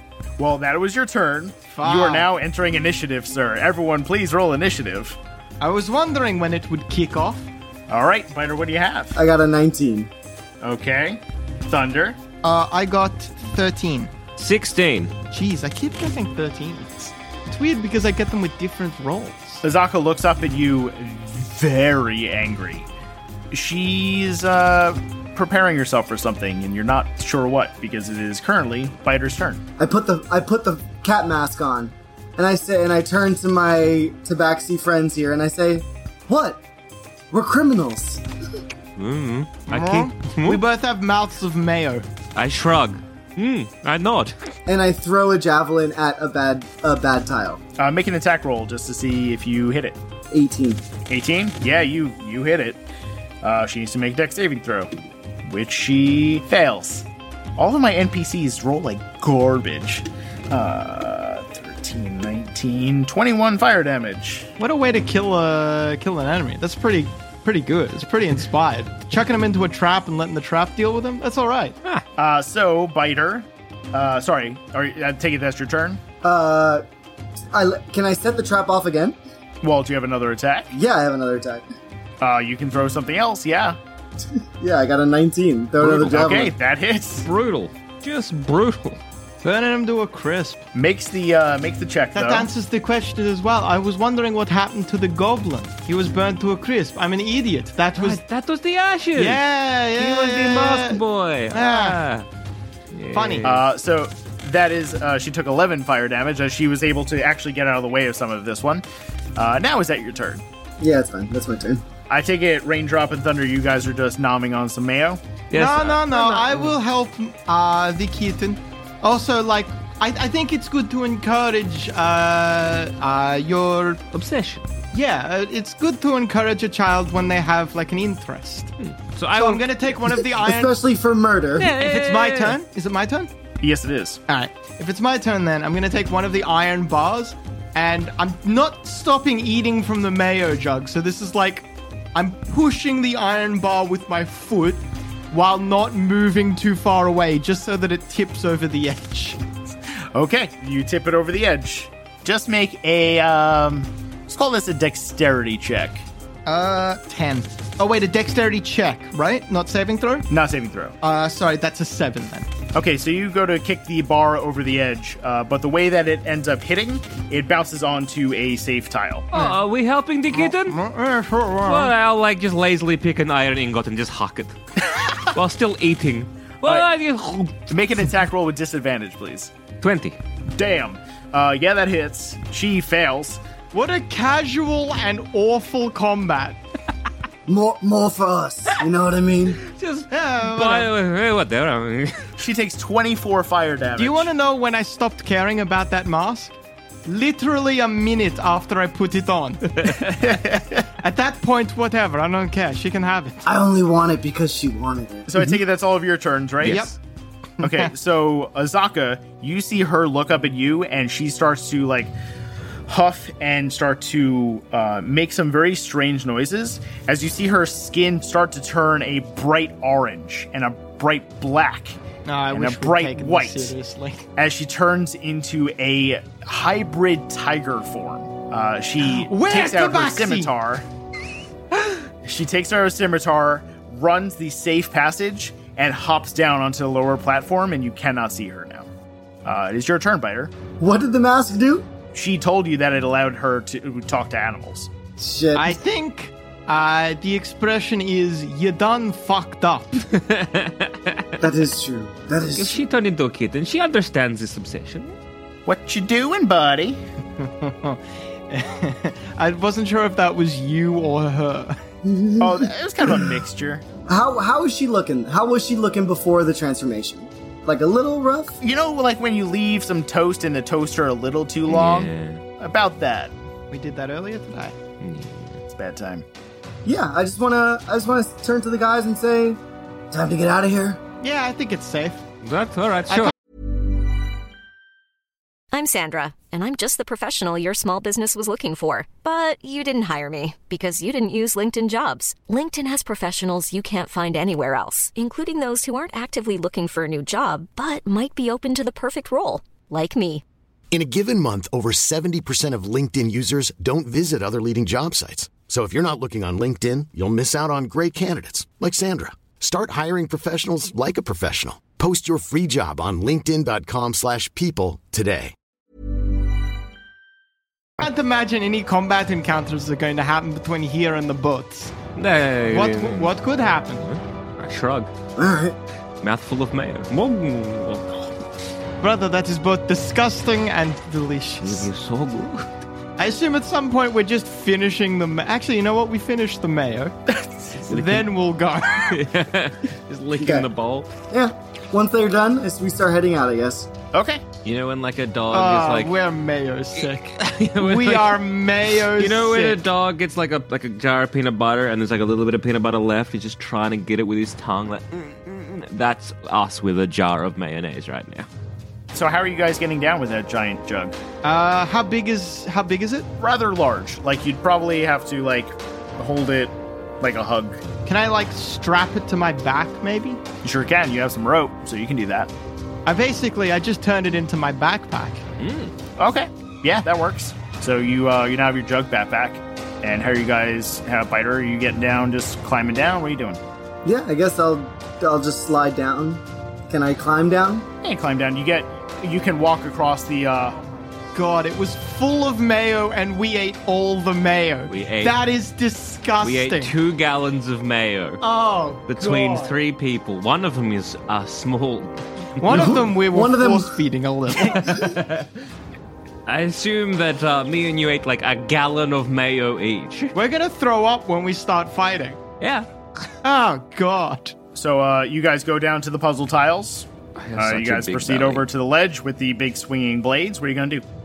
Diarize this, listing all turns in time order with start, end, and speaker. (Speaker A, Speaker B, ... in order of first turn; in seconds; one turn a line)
Speaker A: 0.4-5.2
Speaker B: 1.7-2.3
Speaker B: 5.6-7.5
Speaker A: 7.9-9.2
Speaker C: 9.1-10.1
Speaker A: 10.6-12.2
Speaker B: 12.4-14.1
Speaker D: 14.4-15.1
Speaker B: 15.3-19.6
Speaker A: 19.6-22.9
Speaker A: 23.5-29.6
Speaker C: 29.8-36.6
Speaker C: 37.3-38.2
Speaker D: 39.0-40.6
Speaker B: 39.7-42.0
Speaker D: 42.3-44.4
Speaker C: 44.6-47.6
Speaker A: 47.8-50.0
Speaker C: 50.3-50.8
Speaker A: 51.1-52.8
Speaker A: 53.4-54.9
Speaker A: 55.5-64.5
Speaker B: 64.6-71.8
Speaker A: 72.2-76.0
Speaker C: 76.2-76.8
Speaker C: 77.5-79.2
Speaker A: 79.6-80.7
Speaker C: 80.7-81.6
Speaker A: 82.2-83.8
Speaker C: 84.6-86.5
Speaker A: 85.8-87.3
Speaker D: 87.2-89.0
Speaker B: 89.4-90.6
Speaker A: 90.7-92.5
Speaker B: 92.1-98.2
Speaker D: 98.0-99.4
Speaker B: 99.2-102.0
Speaker D: 100.0-102.2
Speaker D: 102.9-103.6
Speaker B: 103.1-103.5
Speaker A: 103.4-108.8
Speaker A: 109.3-110.4
Speaker C: 110.8-111.8
Speaker A: 112.1-115.2
Speaker D: 115.5-116.8
Speaker B: 115.5-124.0
Speaker D: 124.1-124.7
Speaker B: 124.9-128.7
Speaker D: 128.8-129.6
Speaker B: 129.3-130.7
Speaker C: 130.3-131.7
Speaker D: 131.6-132.6
Speaker B: 131.6-133.3
Speaker A: 133.6-134.2
Speaker B: 134.3-149.4
Speaker A: 150.1-156.0
Speaker B: 156.4-160.2
Speaker A: 160.3-160.9
Speaker B: 161.0-162.5
Speaker A: 162.7-169.3
Speaker D: 169.3-170.8
Speaker B: 169.3-169.6
Speaker B: 170.3-171.9
Speaker D: 171.7-177.7
Speaker A: 177.7-179.5
Speaker D: 179.8-180.2
Speaker A: 180.5-183.4
Speaker B: 183.7-186.6
Speaker C: 187.5-189.6
Speaker D: 189.6-192.2
Speaker B: 190.1-190.9
Speaker A: 192.4-194.3
Speaker B: 194.0-203.4
Speaker A: 200.2-200.6
Speaker C: 203.4-205.6
Speaker A: 205.3-206.8
Speaker D: 206.6-206.9
Speaker B: 206.6-207.0
Speaker B: 207.6-207.9
Speaker A: 207.6-212.1
Speaker A: 212.9-222.0
Speaker B: 222.2-224.2
Speaker A: 222.5-223.7
Speaker A: 224.4-230.8
Speaker B: 229.0-230.5
Speaker A: 232.2-238.9
Speaker A: 239.4-240.5
Speaker C: 240.8-241.9
Speaker A: 242.1-244.9
Speaker C: 245.2-245.8
Speaker B: 245.5-249.9
Speaker D: 250.1-251.4
Speaker C: 251.4-252.8
Speaker D: 252.5-255.2
Speaker A: 255.7-257.0
Speaker B: 257.4-261.8
Speaker C: 262.0-263.3
Speaker A: 262.4-263.8
Speaker C: 264.1-268.6
Speaker A: 268.6-273.3
Speaker D: 271.7-272.4
Speaker B: 273.7-274.8
Speaker D: 275.0-275.6
Speaker A: 275.7-276.2
Speaker C: 276.8-279.6
Speaker C: 280.1-281.0
Speaker B: 281.2-282.2
Speaker D: 282.4-283.3
Speaker E: 285.7-300.4
Speaker F: 300.9-315.5
Speaker B: 318.0-321.9
Speaker D: 322.1-323.3
Speaker B: 322.7-324.1
Speaker D: 324.0-325.1
Speaker C: 325.4-325.8
Speaker D: 326.2-328.4
Speaker B: 329.0-331.9
Speaker D: 331.6-332.7
Speaker B: 333.2-337.1
Speaker B: 337.8-339.2
Speaker D: 337.9-338.3
Speaker D: 339.1-341.1
Speaker C: 340.4-340.7
Speaker C: 341.3-343.9
Speaker A: 344.1-344.4
Speaker D: 344.6-346.1
Speaker B: 345.5-349.8
Speaker D: 347.4-348.4
Speaker D: 349.0-358.5
Speaker A: 359.1-361.1
Speaker B: 361.4-363.3
Speaker A: 363.4-367.8
Speaker B: 368.1-370.4
Speaker A: 370.6-372.5
Speaker B: 373.1-375.4
Speaker D: 375.6-375.9
Speaker A: 376.2-383.6
Speaker C: 384.0-387.9
Speaker A: 388.0-390.8
Speaker B: 391.3-396.9
Speaker D: 394.9-395.4
Speaker D: 396.4-398.4
Speaker B: 398.4-399.8
Speaker D: 399.1-402.9
Speaker B: 402.6-405.0
Speaker C: 402.7-404.0
Speaker D: 404.6-405.5
Speaker D: 406.4-410.3
Speaker B: 410.3-412.4
Speaker D: 412.6-413.3
Speaker B: 413.4-414.5
Speaker A: 414.7-421.0
Speaker D: 417.4-418.6